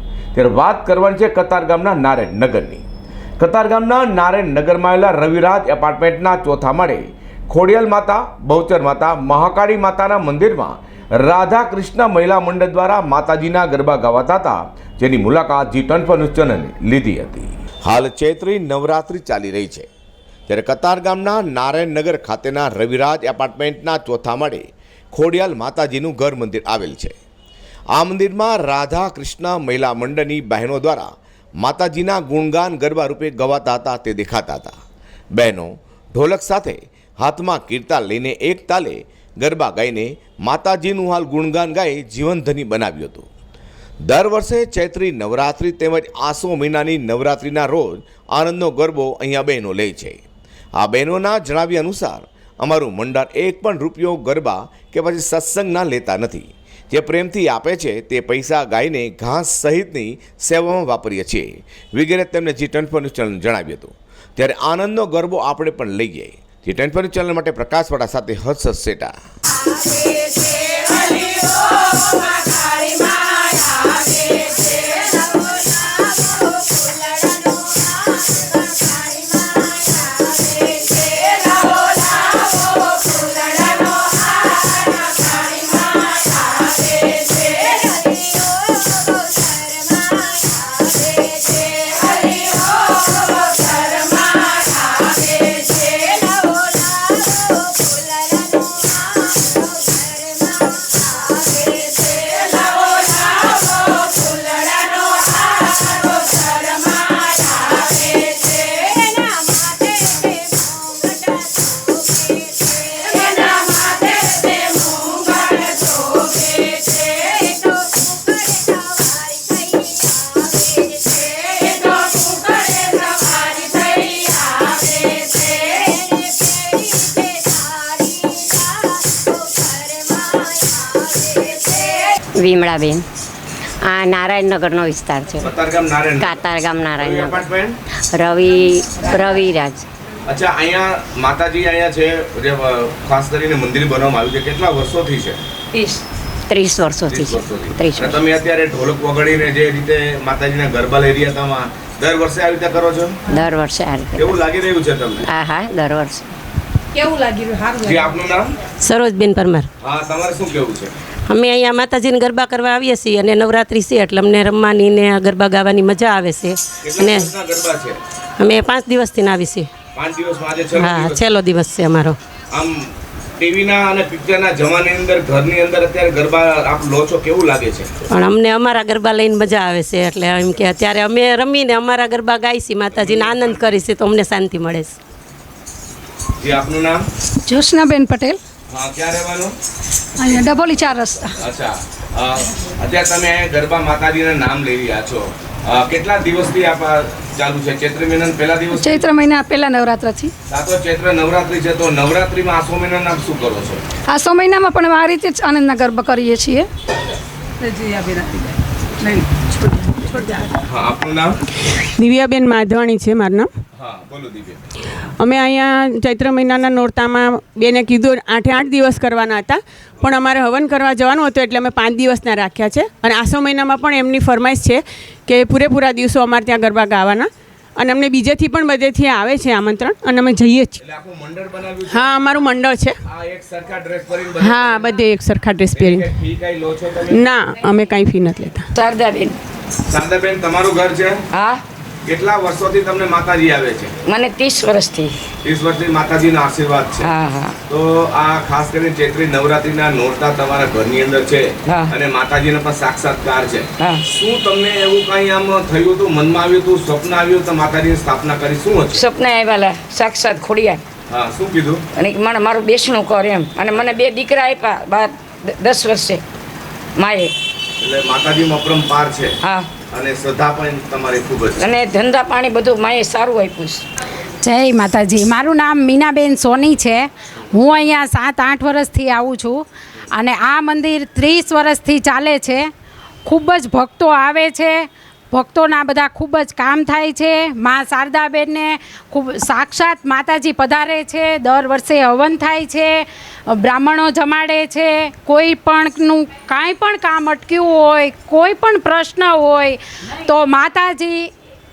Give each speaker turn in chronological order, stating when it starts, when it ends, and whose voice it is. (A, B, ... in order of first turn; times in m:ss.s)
0:00.4-0:02.8 A
0:03.4-0:19.9 A
0:20.5-0:27.2 A
0:28.0-0:31.1 A
0:31.6-0:34.7 A
0:35.4-0:43.3 A
0:44.1-0:50.2 A
0:50.8-1:09.1 A
1:44.7-1:44.9 B
1:48.7-1:49.5 B
1:50.0-1:51.1 B
1:53.1-1:55.4 B
2:02.8-2:03.9 B
2:12.4-2:13.1 C
2:13.8-2:15.5 C
2:15.4-2:17.8 A
2:16.2-2:17.5 C
2:18.1-2:19.9 C
2:20.3-2:25.4 A
2:25.7-2:26.0 D
2:26.5-2:28.3 C
2:27.1-2:33.2 A
2:33.3-2:34.2 C
2:34.2-2:35.3 A
2:35.3-2:36.3 C
2:37.8-2:38.5 A
2:38.8-2:39.7 E
2:39.8-2:40.9 A
2:41.3-2:47.3 E
2:46.8-2:48.0 A
2:48.4-2:49.7 E
2:50.0-2:51.3 A
2:50.8-2:52.2 E
2:52.5-2:57.9 A
2:58.1-3:05.0 E
3:02.9-3:03.8 A
3:06.4-3:07.0 A
3:07.5-3:08.4 F
3:08.7-3:09.5 A
3:10.2-3:11.3 F
3:11.4-3:19.1 A
3:18.8-3:20.3 F
3:20.5-3:23.8 A
3:24.1-3:26.6 F
3:30.6-3:31.4 A
3:32.0-3:33.5 G
3:33.8-3:34.6 A
3:35.2-3:50.8 G
3:50.8-3:52.4 A
3:51.9-3:53.0 G
3:53.0-3:55.0 A
3:54.4-3:56.1 G
3:55.7-3:57.2 A
3:57.1-3:58.7 G
3:58.8-3:59.4 D
3:59.9-4:01.2 A
4:01.3-4:01.6 D
4:02.0-4:04.0 A
4:04.1-4:05.1 D
4:05.4-4:07.1 A
4:07.0-4:07.6 D
4:07.7-4:19.0 A
4:11.7-4:11.9 D
4:18.9-4:20.8 D
4:21.1-4:21.8 A
4:22.0-4:26.2 D
4:23.7-4:24.0 A
4:27.0-4:27.3 D
4:27.8-4:29.4 A
4:29.4-4:29.7 D
4:29.9-4:31.7 A
4:31.6-4:33.8 D
4:34.4-4:39.6 B
4:40.2-4:42.6 B
4:43.3-5:01.3 B